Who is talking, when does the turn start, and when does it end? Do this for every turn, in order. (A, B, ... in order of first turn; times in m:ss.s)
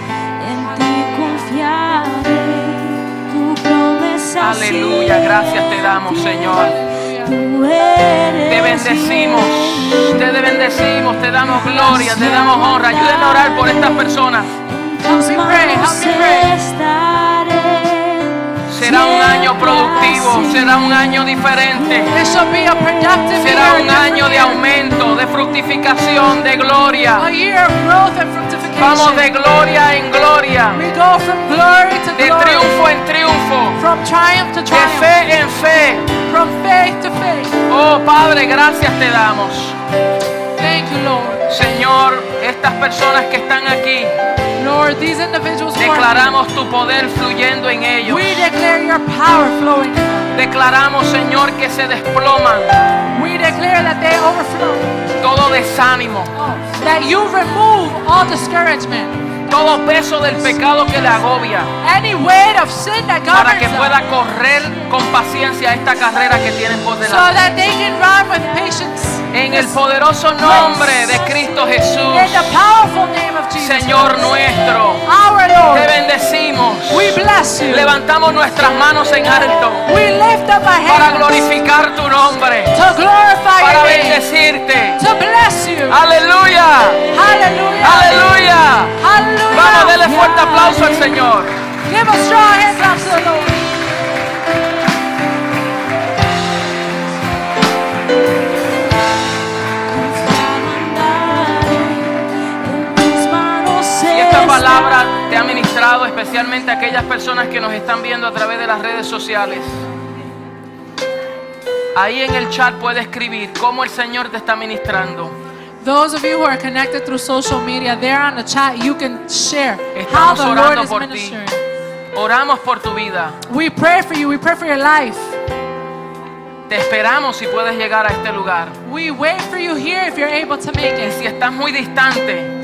0:00.4-0:10.8 A
0:00.8-0:01.2 B
0:04.4-0:06.8 C
0:06.2-0:07.4 B
0:08.5-0:14.5 C
0:11.4-0:23.7 A
0:15.0-0:16.6 B
0:18.7-0:22.1 C
0:22.0-0:24.7 B
0:23.4-0:27.3 C
0:27.2-0:29.3 B
0:28.8-0:30.8 C
0:30.7-0:32.9 B
0:32.2-0:33.8 C
0:33.8-0:35.4 B
0:34.7-0:36.1 C
0:36.1-0:37.6 B
0:37.7-0:39.8 C
0:40.6-0:41.7 B
0:41.5-0:44.2 C
0:44.6-0:46.4 B
0:45.8-0:48.5 C
0:48.0-0:50.4 B
0:50.3-0:52.8 C
0:53.1-0:55.1 B
0:55.2-0:56.3 C
0:56.4-0:59.3 B
0:59.5-1:01.7 C
1:01.8-1:04.0 B
1:03.3-1:07.3 C
1:07.0-1:09.8 B
1:09.3-1:12.5 C
1:10.4-1:11.2 B
1:12.1-1:14.4 B
1:13.6-1:15.0 C
1:15.0-1:16.0 B
1:15.7-1:19.9 C
1:16.9-1:18.0 B
1:19.9-1:21.5 B
1:20.9-1:22.8 C
1:22.7-1:24.3 B
1:23.6-1:25.0 C
1:25.0-1:26.0 B
1:25.9-1:27.1 C
1:27.1-1:28.3 B
1:27.8-1:31.6 C
1:29.0-1:30.0 B
1:30.0-1:31.2 A
1:31.9-1:33.6 B
1:33.2-1:35.1 A
1:39.9-1:45.6 A
1:44.1-1:49.8 C
1:52.0-1:55.4 C
1:55.8-2:01.6 B
1:59.9-2:01.4 C
2:02.1-2:03.4 C
2:03.5-2:05.4 B
2:06.7-2:08.8 C
2:08.8-2:11.2 B
2:11.0-2:12.5 C